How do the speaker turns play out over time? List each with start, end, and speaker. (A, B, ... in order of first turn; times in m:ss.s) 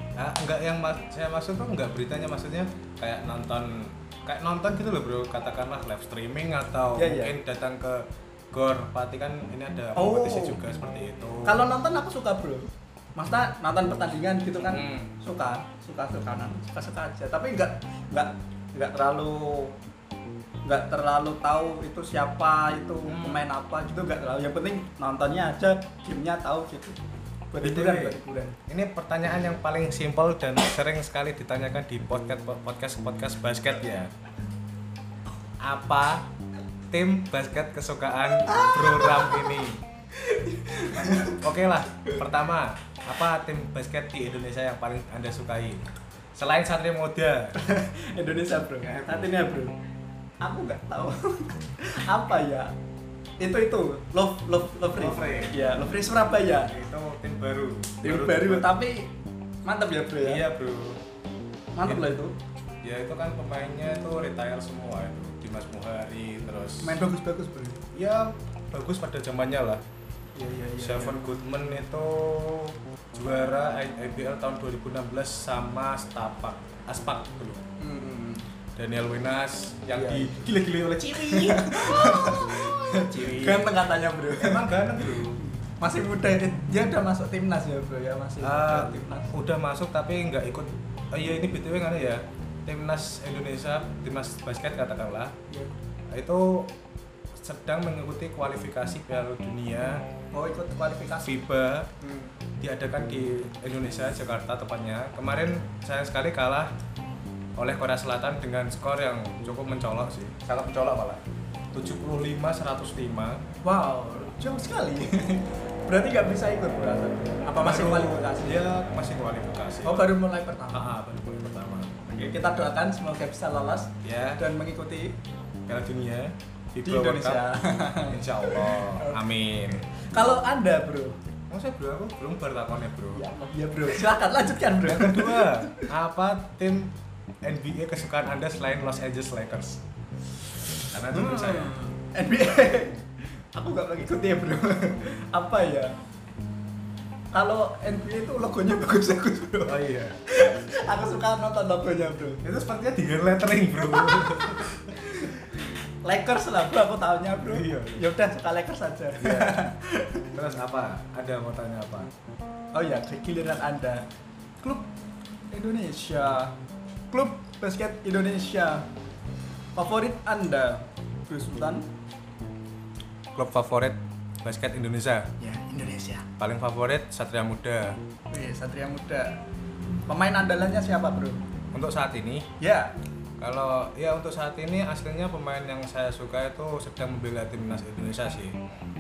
0:00.2-0:11.6 A
0:07.0-0:07.3 B
0:10.0-0:10.6 B
0:11.4-0:19.8 B
0:14.6-0:15.1 A
0:20.6-0:27.0 B
0:23.1-0:23.5 A
0:27.5-0:28.6 B
0:27.6-0:34.1 A
0:35.6-0:36.3 A
0:36.9-0:39.8 A
0:38.5-0:39.4 B
0:40.2-0:41.4 B
0:41.4-0:45.8 A
0:46.4-0:47.6 A
0:47.6-0:49.8 B
0:50.4-0:52.7 B
0:53.4-0:56.7 B
0:55.0-0:55.6 A
0:56.7-0:58.7 A
0:58.0-0:59.1 B
0:59.6-1:00.4 B
1:00.2-1:01.0 A
1:01.8-1:02.4 B
1:02.8-1:07.0 A
1:06.8-1:07.8 B
1:07.9-1:09.8 A
1:10.4-1:11.2 B
1:10.8-1:17.6 A
1:17.8-1:18.4 B
1:18.8-1:23.7 A
1:19.9-1:29.3 B
1:24.3-1:25.4 A
1:28.4-1:35.3 A
1:36.1-1:36.7 A
1:37.4-1:40.0 A
1:40.3-1:41.4 B
1:41.2-1:41.9 A
1:42.0-1:42.3 B
1:42.6-1:46.7 A
1:47.6-1:51.2 A
1:51.7-1:53.4 A
1:53.6-1:58.6 B
1:57.6-2:00.1 A
1:59.8-2:00.8 B
2:00.7-2:02.3 A
2:02.1-2:05.2 B
2:04.0-2:04.4 A
2:05.7-2:07.4 A
2:06.8-2:09.2 B
2:08.1-2:09.9 A
2:09.9-2:11.2 B
2:11.5-2:13.2 A
2:13.2-2:15.9 B
2:14.8-2:19.8 A
2:20.9-2:21.7 A
2:21.1-2:23.0 B
2:23.5-2:26.0 B
2:27.3-2:32.4 B
2:29.6-2:30.2 A
2:32.4-2:35.0 A
2:33.9-2:35.5 B
2:36.0-2:40.3 B
2:37.4-2:38.0 A
2:39.2-2:39.6 A
2:40.3-2:42.1 A
2:42.7-2:44.1 B
2:44.6-2:44.9 B
2:45.5-2:46.5 B
2:47.1-2:48.9 B
2:49.8-2:51.9 B
2:53.4-2:55.3 A
2:55.4-2:56.2 B
2:56.4-2:58.0 A
2:58.3-2:59.4 B
3:00.1-3:01.4 B
3:01.7-3:02.5 A
3:02.6-3:02.9 B
3:03.4-3:08.6 A